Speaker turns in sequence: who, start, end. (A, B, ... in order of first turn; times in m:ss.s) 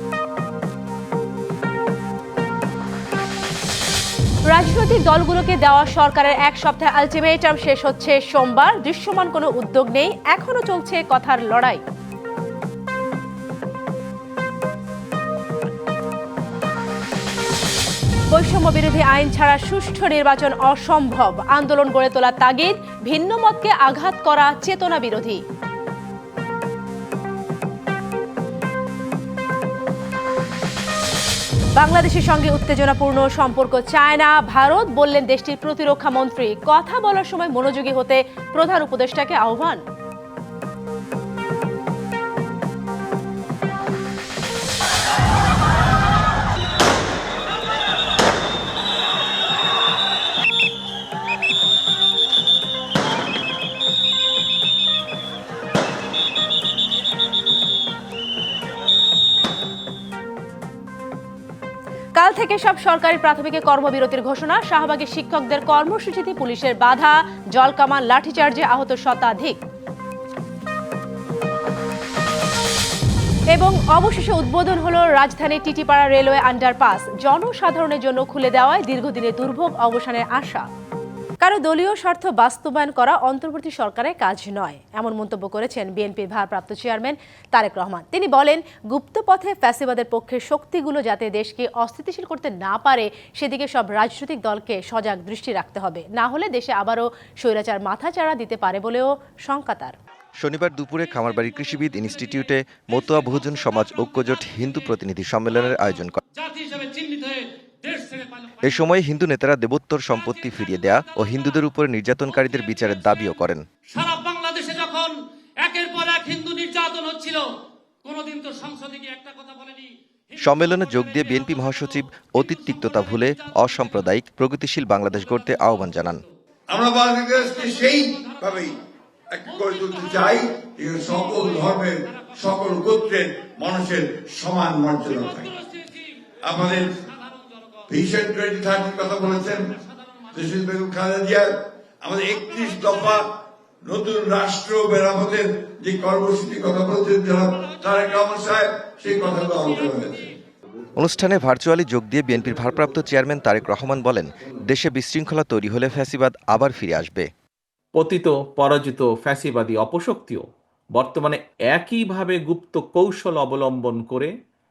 0:04.5-0:11.8 A
0:18.3-0:25.4 A
0:31.8-0:39.8 A
1:02.2-1:09.6 A
1:13.5-1:20.6 A
1:21.4-1:40.0 A
1:40.4-1:46.2 B
1:46.5-1:47.4 C
1:47.9-1:48.3 C
1:48.6-1:53.6 B
1:54.0-1:55.1 C
1:55.6-1:57.4 C
1:58.1-1:59.7 C
2:00.4-2:06.2 B
2:06.7-2:08.7 D
2:09.4-2:12.0 D
2:12.5-2:15.5 D
2:16.5-2:16.8 D
2:17.9-2:19.6 D
2:20.4-2:21.5 D
2:22.0-2:23.2 D
2:23.9-2:30.2 D
2:31.0-2:37.3 B
2:37.9-2:44.3 E